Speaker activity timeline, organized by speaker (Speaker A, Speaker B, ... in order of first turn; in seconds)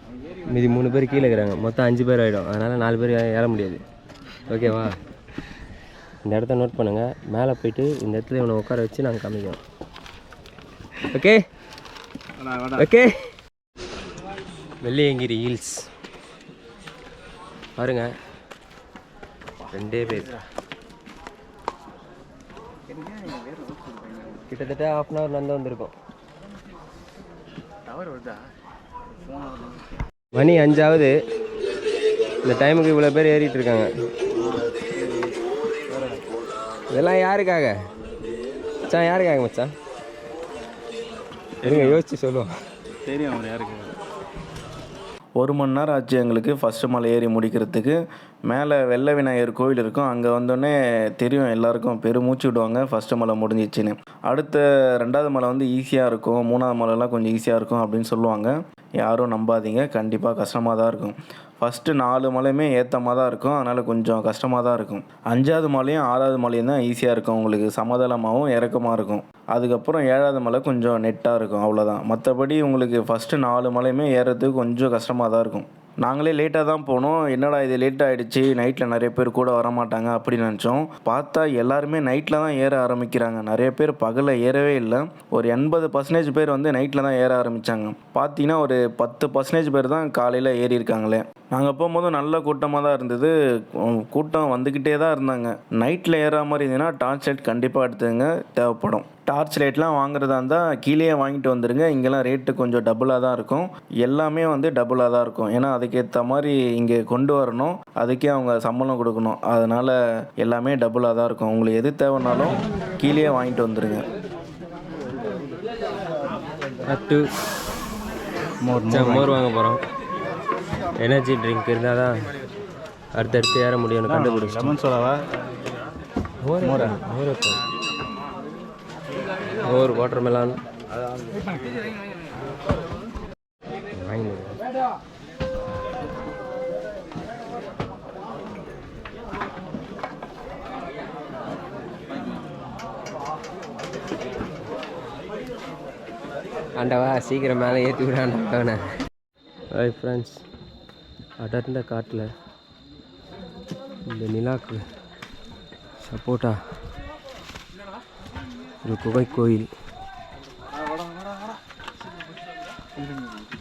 Speaker A: 0.5-3.8, 4.5-5.0, 6.2-9.6, 11.1-11.4, 12.8-13.3, 14.8-15.9, 17.8-18.1, 19.7-20.3, 24.5-25.9, 30.3-31.1, 32.5-33.9, 36.9-37.8, 38.9-39.7, 41.6-42.5, 116.9-117.2, 118.9-119.8, 121.0-122.2, 123.2-124.8, 126.4-127.6, 129.7-130.6, 133.9-134.6, 146.8-148.8, 149.7-150.4, 151.4-152.3, 154.1-154.8, 156.1-156.6, 158.8-159.7
Speaker B: 12.4-12.9, 19.6-20.4, 22.9-24.5, 27.9-28.4, 29.2-29.8, 34.7-35.4, 35.9-36.2, 41.6-42.0, 43.1-44.0, 118.7-119.4, 124.1-125.2, 126.6-127.0
Speaker C: 45.4-114.0